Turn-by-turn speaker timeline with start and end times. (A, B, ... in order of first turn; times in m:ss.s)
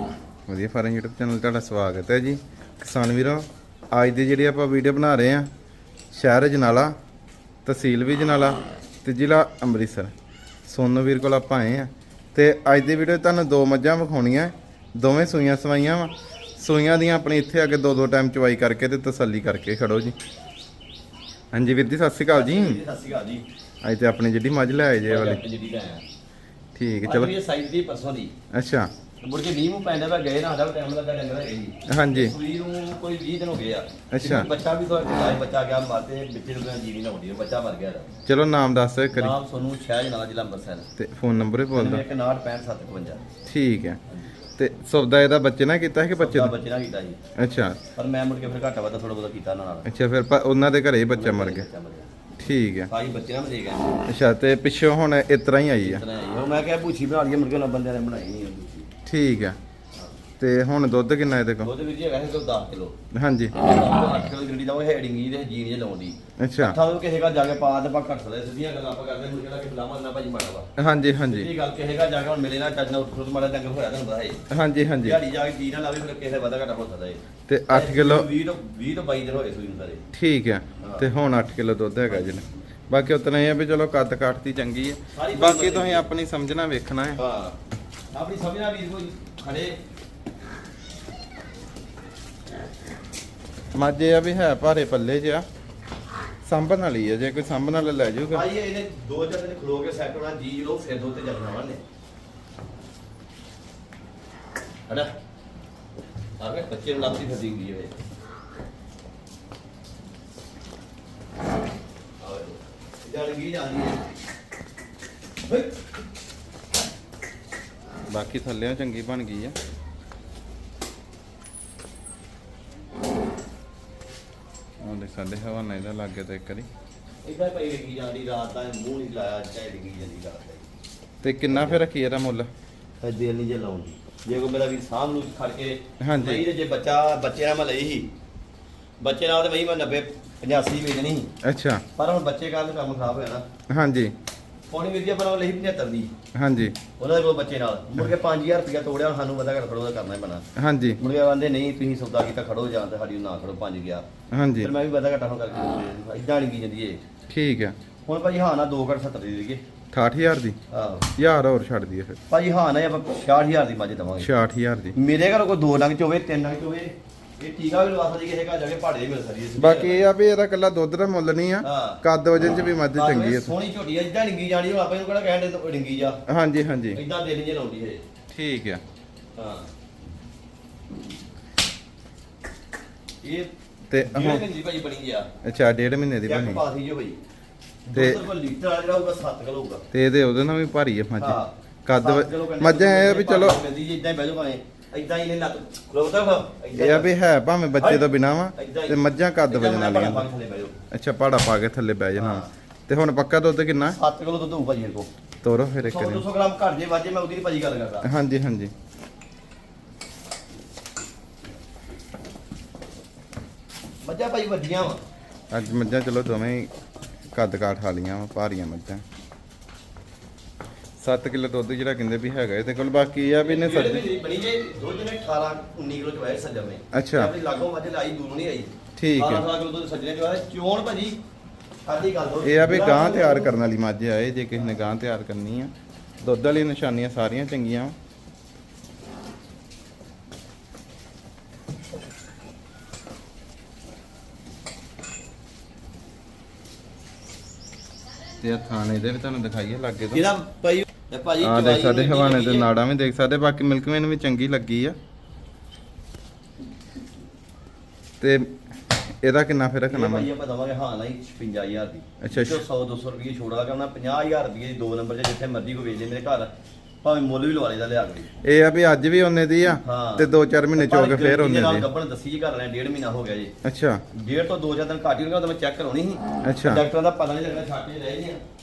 0:00.5-0:05.5 A
0:06.1-0:06.9 A
0:07.6-0:10.1 A
0:10.6-0:20.2 A
0:21.5-0:22.8 A
0:22.3-0:23.4 B
0:23.8-0:25.4 A
0:25.1-0:26.0 B
0:26.7-0:27.3 A
0:27.0-0:28.3 B
0:28.5-0:28.9 A
0:29.2-0:38.1 B
0:31.9-0:32.4 A
0:34.1-0:34.5 A
0:38.3-0:39.4 A
0:39.1-0:40.8 B
0:41.0-0:42.0 A
0:41.7-0:43.2 B
0:43.4-0:44.0 A
0:44.6-0:46.5 A
0:46.2-0:47.2 B
0:47.4-0:47.8 A
0:47.9-0:49.9 B
0:49.8-0:51.6 A
0:51.2-0:52.1 B
0:52.4-0:52.9 A
0:52.9-0:54.0 B
0:54.1-0:56.0 A
0:55.8-0:58.9 B
0:59.0-0:59.6 A
1:00.4-1:01.7 A
1:01.6-1:03.0 B
1:03.1-1:03.5 A
1:03.5-1:10.7 B
1:06.4-1:06.8 A
1:10.8-1:11.5 A
1:11.3-1:14.4 B
1:14.5-1:15.2 A
1:15.0-1:20.0 B
1:17.5-1:18.3 A
1:20.1-1:27.2 A
1:20.8-1:21.0 B
1:25.1-1:26.1 B
1:27.2-1:27.6 B
1:28.1-1:29.8 B
1:33.7-1:35.4 A
1:36.4-1:38.4 A
1:38.3-1:41.8 B
1:46.4-1:48.0 B
1:52.2-1:54.0 B
1:55.4-1:55.7 B
1:58.1-1:59.5 A
2:04.8-2:06.7 A
2:07.2-2:10.6 B
2:11.2-2:12.5 A
2:11.5-2:11.8 B
2:13.0-2:18.1 B
2:16.0-2:16.4 A
2:19.0-2:21.3 B
2:21.4-2:21.8 A
2:22.0-2:23.4 B
2:23.7-2:24.1 A
2:24.7-2:26.1 B
2:26.3-2:26.7 A
2:27.0-2:30.4 B
2:30.6-2:31.0 A
2:31.0-2:34.1 B
2:34.3-2:34.7 A
2:34.6-2:37.0 B
2:37.3-2:37.8 A
2:38.1-2:39.6 B
2:39.9-2:40.6 A
2:40.7-2:41.1 B
2:41.2-2:42.2 A
2:42.3-2:44.4 B
2:44.2-2:45.0 A
2:44.9-2:50.1 B
2:49.6-2:53.5 A
2:51.6-2:52.0 B
2:53.0-2:56.2 B
2:56.3-2:57.0 A
2:56.9-2:58.0 B
2:58.3-2:58.8 A
2:59.4-2:59.7 B
3:03.2-3:05.3 B
3:03.9-3:04.4 A
3:05.4-3:06.6 A
3:06.2-3:07.2 B
3:07.9-3:09.8 B
3:07.9-3:08.2 A
3:09.9-3:13.6 A
3:11.2-3:17.1 B
3:16.8-3:20.3 A
3:17.8-3:20.8 B
3:20.9-3:24.0 A
3:22.2-3:22.5 B
3:23.9-3:25.1 B
3:25.4-3:26.2 A
3:25.8-3:28.0 B
3:28.0-3:28.7 A
3:34.0-3:35.0 B
3:35.5-3:36.7 A
3:37.3-3:39.0 A
3:41.0-3:44.0 A
3:43.4-3:51.2 B
3:46.9-3:47.3 A
3:49.0-3:49.4 A
3:51.8-3:53.5 B
3:52.4-3:57.9 A
4:08.4-4:10.2 A
4:10.1-4:12.7 B
4:11.4-4:15.0 A
4:18.2-4:20.3 A
4:19.9-4:26.5 B
4:22.2-4:22.6 A
4:27.0-4:28.3 B
4:28.4-4:31.8 A
4:29.8-4:33.5 B
4:33.6-4:34.0 A
4:34.1-4:38.4 B
4:36.4-4:36.8 A